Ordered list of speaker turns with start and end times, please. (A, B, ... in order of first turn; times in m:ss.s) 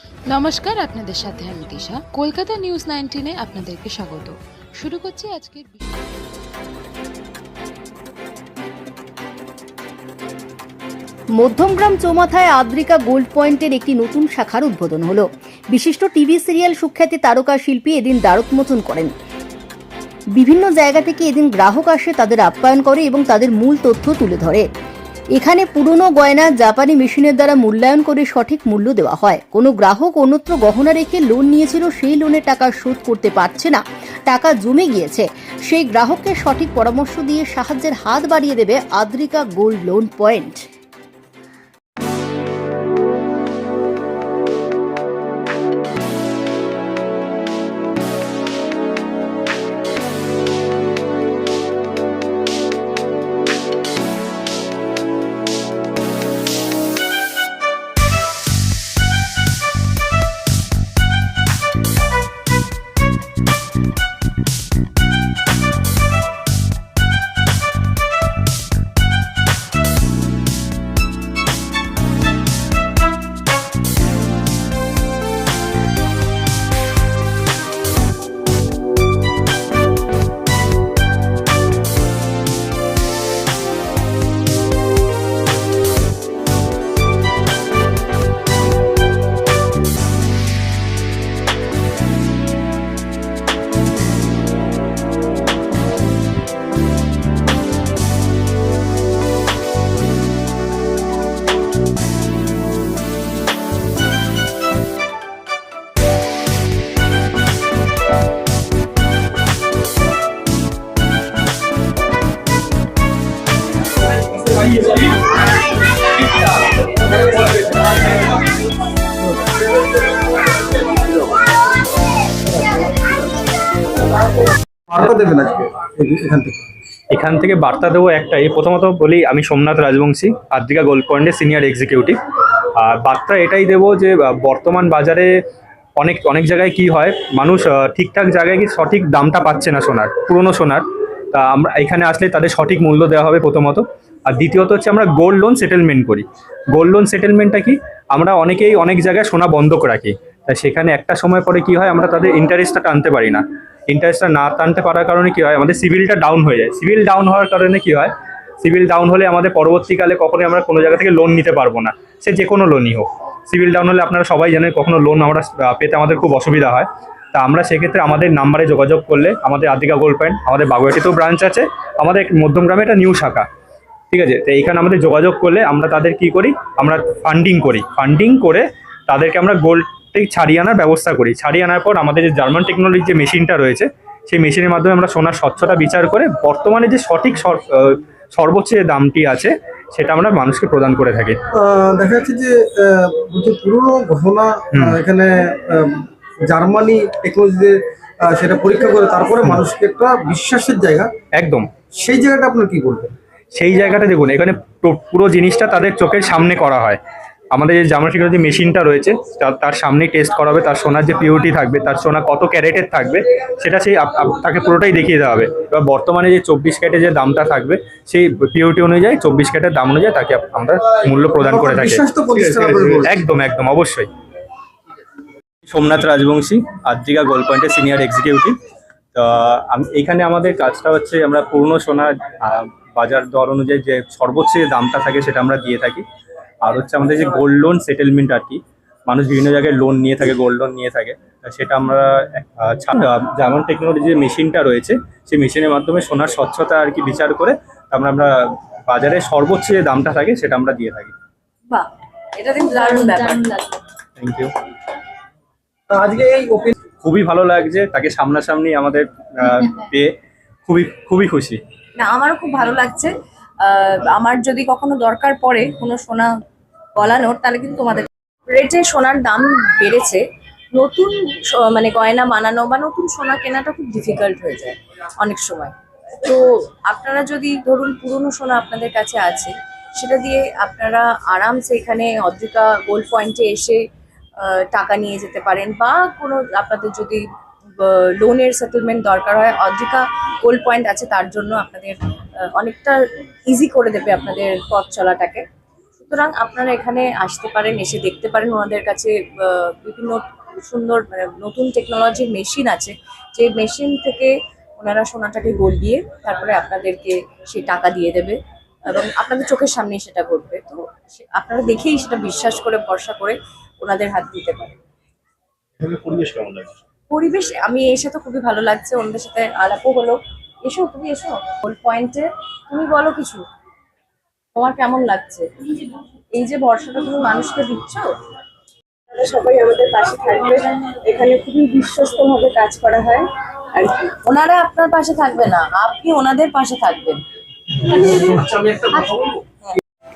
0:00.3-0:05.8 A
0:11.4-0:19.1 B
0:20.4-0:24.7 B
0:25.4-0:40.7 B
2:04.9-2:06.6 C
2:07.1-2:12.2 D
2:12.8-2:15.3 D
2:16.0-2:53.5 D
2:54.1-3:11.4 D
3:11.5-3:21.1 C
3:21.4-3:21.6 D
3:22.0-3:23.1 C
3:23.5-3:27.0 D
3:27.5-3:44.1 D
3:41.4-3:43.2 C
3:45.7-3:48.6 D
3:49.1-3:56.0 D
3:56.6-4:11.1 D
4:11.7-4:13.8 E
4:14.2-4:14.5 D
4:15.9-4:16.7 C
4:17.0-4:20.1 D
4:20.6-4:21.6 D
4:22.0-4:23.1 E
4:23.6-4:26.3 E
4:26.9-4:30.2 E
4:30.7-4:43.8 E
4:44.4-4:47.2 E
4:47.8-4:52.0 E
4:52.5-4:53.0 E
4:53.5-4:55.4 E
4:56.0-5:14.8 E
5:15.8-5:16.7 F
5:17.1-5:23.4 E
5:24.5-5:25.4 E
5:26.3-5:28.1 E
5:29.1-5:37.2 E
5:37.8-5:38.4 E
5:38.0-5:39.4 F